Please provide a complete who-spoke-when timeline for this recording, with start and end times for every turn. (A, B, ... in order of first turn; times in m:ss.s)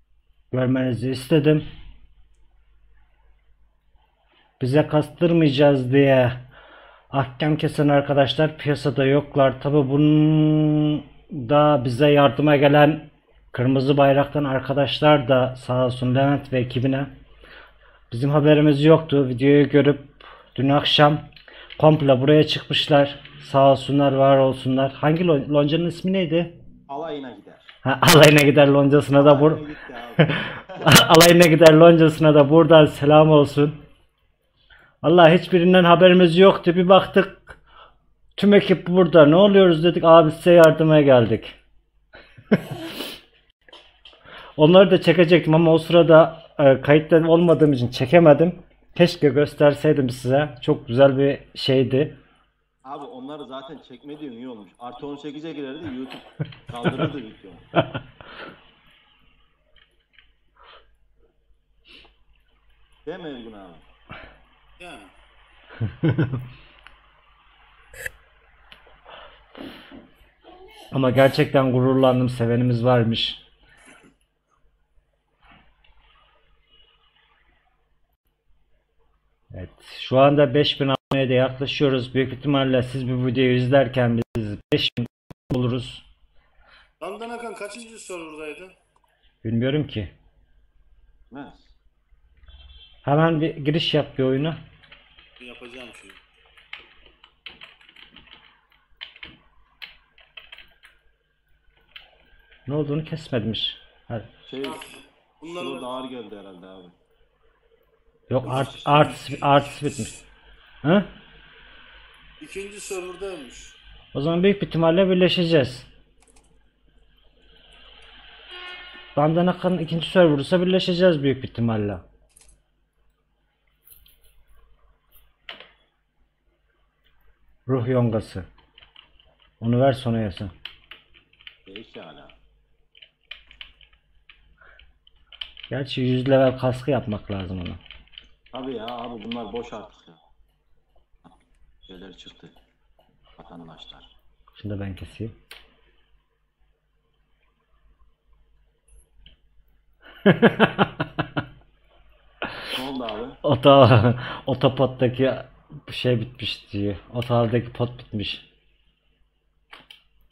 0:00.5-0:01.6 A
0:04.6-0:06.5 A
0:07.1-0:17.1 A
0:18.1-0:26.6 A
0:26.9-0:27.8 B
0:27.8-0:29.6 A
0:29.1-0:30.7 B
0:30.4-0:33.8 A
0:35.0-0:37.6 A
0:38.4-0:41.6 A
0:42.6-0:42.8 A
0:44.6-0:52.2 A
0:52.8-0:57.7 B
1:03.0-1:03.9 B
1:04.8-1:05.1 C
1:10.9-1:13.4 A
1:19.5-1:26.0 A
1:27.0-1:28.8 C
1:29.4-1:30.1 A
1:31.3-1:31.8 B
1:33.0-1:34.6 A
1:35.4-1:36.2 C
1:42.7-1:44.3 A
1:44.5-1:44.9 B
1:45.4-1:45.9 C
1:45.4-1:46.9 B
1:48.3-1:50.2 A
1:48.5-1:49.1 B
1:50.8-1:51.1 A
1:52.4-1:53.8 C
1:54.1-1:55.9 A
1:59.2-2:02.0 A
2:07.7-2:08.5 A
2:09.6-2:10.5 A
2:11.7-2:12.4 B
2:15.7-2:17.8 A
2:18.5-2:20.2 B
2:21.9-2:22.6 B
2:23.4-2:24.1 B
2:24.5-2:25.4 A
2:30.3-2:31.2 A
2:32.7-2:33.4 B
2:33.4-2:38.4 A